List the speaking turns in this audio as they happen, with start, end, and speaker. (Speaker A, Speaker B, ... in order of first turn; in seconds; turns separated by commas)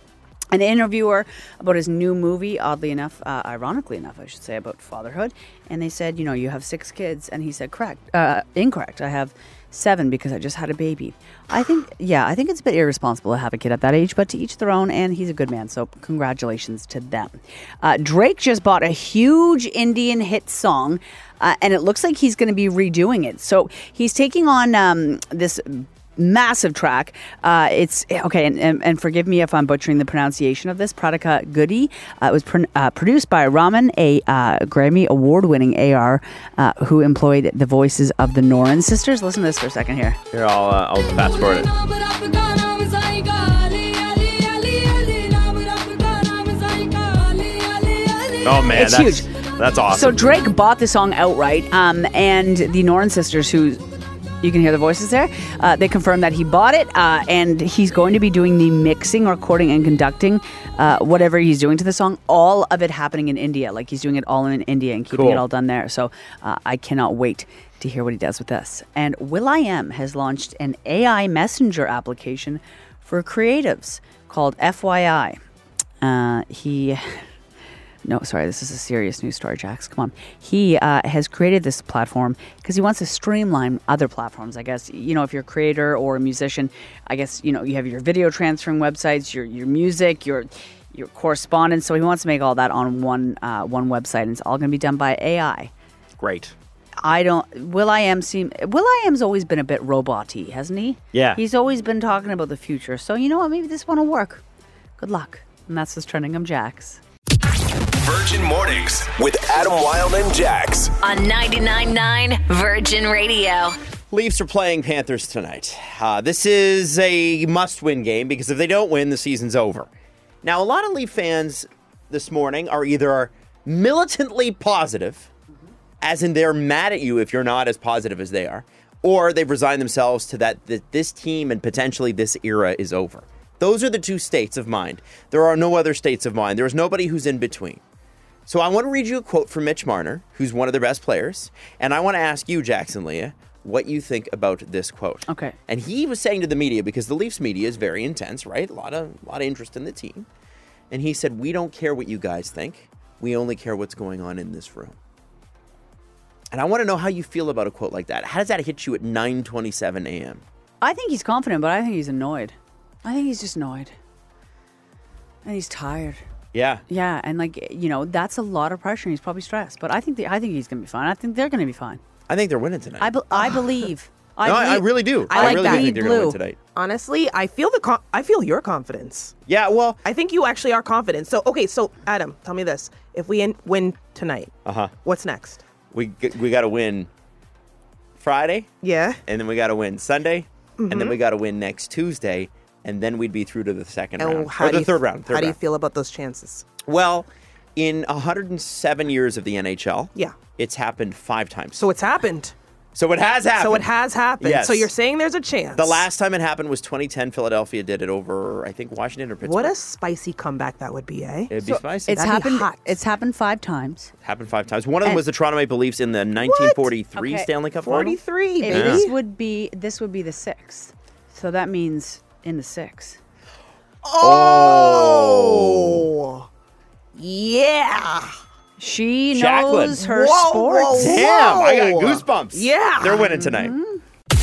Speaker A: 0.5-40.2, Speaker B: 40.3-41.7, Speaker B: 48.4-50.4, Speaker A: 48.7-49.3, Speaker A: 49.9-53.8, Speaker A: 54.4-75.4, Speaker B: 65.1-65.5, Speaker A: 76.0-77.2, Speaker A: 78.0-95.7, Speaker B: 96.2-96.5, Speaker A: 97.0-104.4, Speaker B: 101.1-101.4, Speaker A: 105.0-107.0, Speaker C: 108.0-110.9, Speaker D: 111.0-113.8, Speaker B: 114.1-119.9, Speaker B: 120.4-125.3, Speaker B: 126.0-137.8, Speaker B: 138.5-150.3, Speaker A: 145.3-145.6, Speaker B: 150.9-155.0, Speaker B: 156.5-160.4, Speaker A: 160.8-163.9, Speaker A: 165.4-166.2, Speaker B: 166.5-166.8, Speaker A: 166.9-172.0, Speaker B: 172.3-173.5, Speaker A: 173.0-176.4, Speaker B: 174.4-176.6, Speaker E: 175.3-176.0, Speaker E: 176.7-179.4, Speaker B: 179.5-180.0, Speaker E: 180.1-184.5, Speaker B: 184.7-184.9, Speaker E: 185.0-185.6, Speaker B: 185.9-187.1, Speaker B: 188.2-188.7, Speaker E: 188.8-189.2, Speaker B: 189.3-195.6, Speaker E: 190.8-191.2, Speaker E: 194.2-196.7, Speaker B: 196.8-201.8, Speaker E: 201.8-202.6, Speaker B: 202.9-203.9, Speaker E: 203.6-206.1, Speaker B: 204.4-204.9, Speaker B: 205.7-209.8, Speaker E: 209.4-212.9, Speaker B: 211.5-212.3, Speaker A: 212.1-214.1, Speaker B: 214.2-219.1, Speaker E: 216.4-216.9, Speaker A: 217.2-217.5, Speaker E: 217.8-219.2, Speaker A: 218.6-223.2, Speaker E: 224.0-226.5, Speaker B: 224.2-226.1, Speaker E: 227.2-228.4, Speaker A: 228.8-231.2, Speaker B: 229.3-233.8, Speaker E: 230.6-233.4, Speaker A: 233.3-234.0